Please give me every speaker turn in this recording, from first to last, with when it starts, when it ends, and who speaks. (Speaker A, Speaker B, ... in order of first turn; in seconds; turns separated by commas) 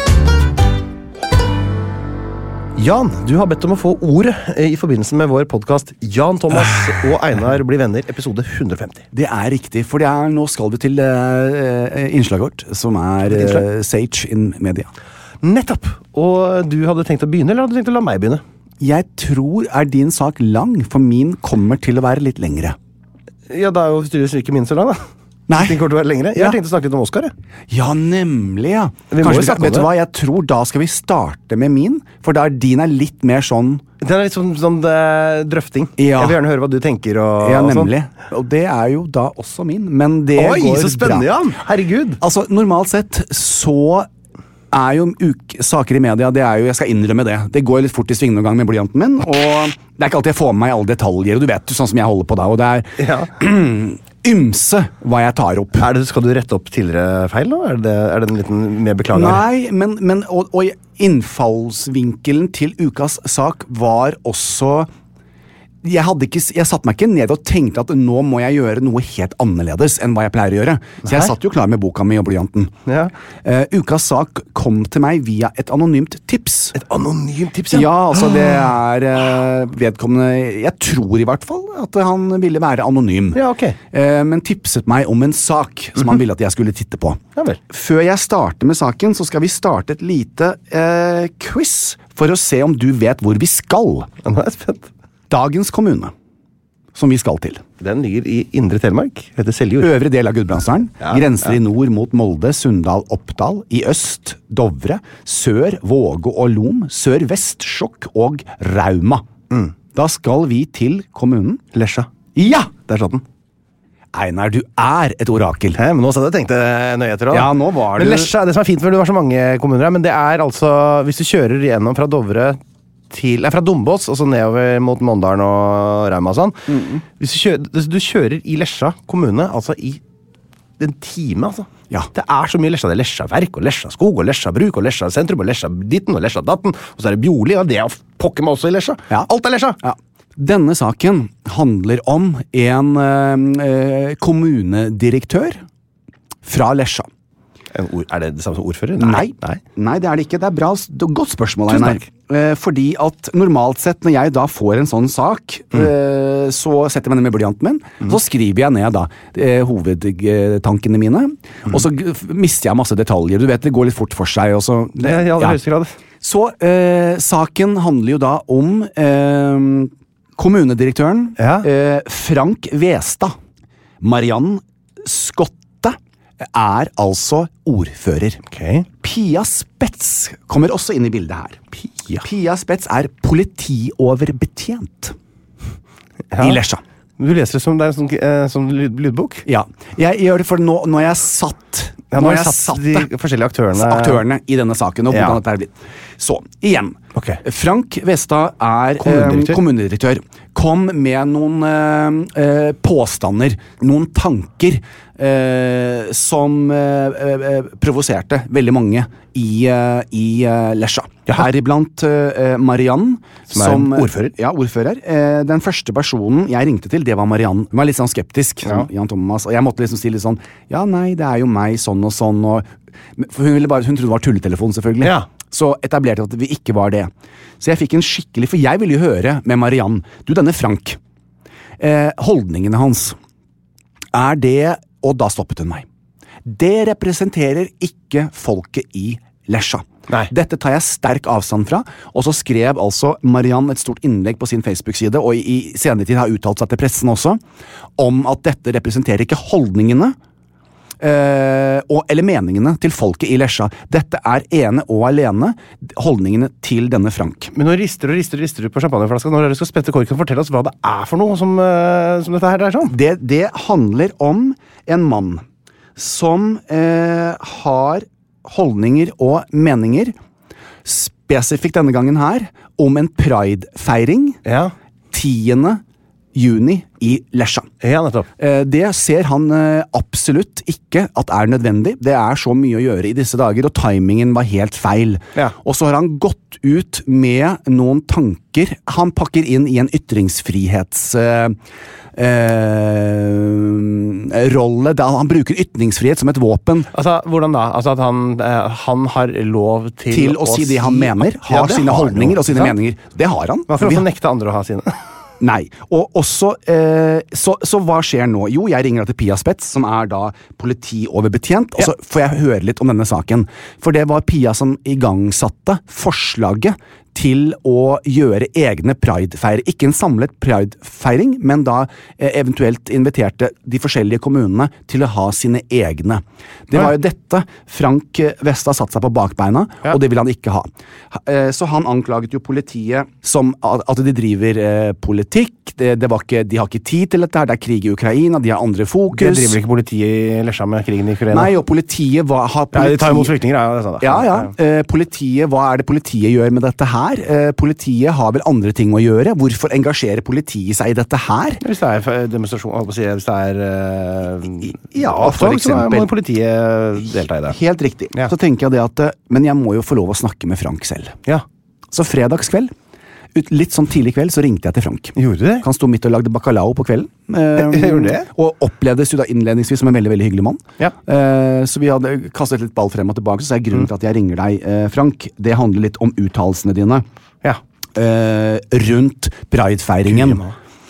Speaker A: 2.8-9.0, Speaker B: 9.1-14.9, Speaker A: 13.3-13.6, Speaker A: 15.4-18.4, Speaker B: 18.8-22.8, Speaker A: 23.5-27.3, Speaker B: 25.5-25.8, Speaker B: 27.7-33.9, Speaker A: 29.1-29.9, Speaker A: 34.0-37.9, Speaker B: 36.0-36.4, Speaker B: 37.4-41.3, Speaker A: 40.4-42.2, Speaker B: 42.2-44.1, Speaker B: 44.7-55.9, Speaker A: 53.0-53.3, Speaker A: 55.8-59.4, Speaker B: 59.1-64.9, Speaker B: 65.8-72.7, Speaker A: 71.0-71.3, Speaker A: 72.9-73.1, Speaker B: 73.4-76.8, Speaker A: 76.7-78.3, Speaker B: 77.7-83.4, Speaker A: 83.3-83.8, Speaker B: 83.9-94.1, Speaker A: 94.2-94.9, Speaker B: 95.3-96.1, Speaker B: 96.9-97.6, Speaker A: 97.8-99.9, Speaker B: 99.8-109.3, Speaker B: 109.9-111.6, Speaker A: 111.7-112.1, Speaker B: 112.4-112.7, Speaker A: 112.7-113.2, Speaker B: 114.1-115.8, Speaker A: 115.7-122.6, Speaker B: 117.3-118.3, Speaker A: 123.1-130.0, Speaker B: 126.7-127.0, Speaker A: 130.8-139.8, Speaker B: 139.8-145.6, Speaker B: 146.4-147.1, Speaker A: 147.7-149.6, Speaker B: 149.0-165.6, Speaker A: 151.7-152.1, Speaker A: 165.0-165.9, Speaker B: 166.2-173.3, Speaker A: 171.4-171.7, Speaker B: 174.0-178.4, Speaker A: 178.5-178.9, Speaker B: 179.0-181.6, Speaker A: 181.8-182.2, Speaker B: 182.2-185.2, Speaker A: 186.3-186.6, Speaker B: 186.4-186.8, Speaker A: 187.2-189.4, Speaker B: 189.4-193.1, Speaker A: 192.1-194.2, Speaker B: 193.7-231.0, Speaker A: 195.1-195.4, Speaker A: 197.1-197.4, Speaker A: 199.0-199.6, Speaker A: 213.5-214.3, Speaker B: 231.8-233.2, Speaker B: 234.1-235.9, Speaker B: 236.4-247.4, Speaker B: 248.0-250.2, Speaker B: 251.0-257.5, Speaker A: 257.5-262.9, Speaker B: 262.9-265.4, Speaker B: 265.9-270.1, Speaker B: 270.8-274.4, Speaker A: 274.4-274.7, Speaker B: 275.1-275.8, Speaker B: 276.3-277.7, Speaker A: 277.8-278.3, Speaker B: 278.4-291.6, Speaker B: 292.1-296.9, Speaker A: 296.9-302.7, Speaker B: 300.1-304.1, Speaker A: 303.7-305.0, Speaker B: 305.4-339.6, Speaker A: 339.1-341.5, Speaker B: 341.3-343.3, Speaker A: 342.7-344.5, Speaker B: 344.0-351.6, Speaker A: 351.6-357.6, Speaker B: 354.9-356.1, Speaker B: 357.5-361.2, Speaker B: 361.9-362.7, Speaker B: 363.3-377.1, Speaker A: 365.2-365.6, Speaker A: 367.6-368.3, Speaker B: 377.9-380.4, Speaker A: 380.1-380.6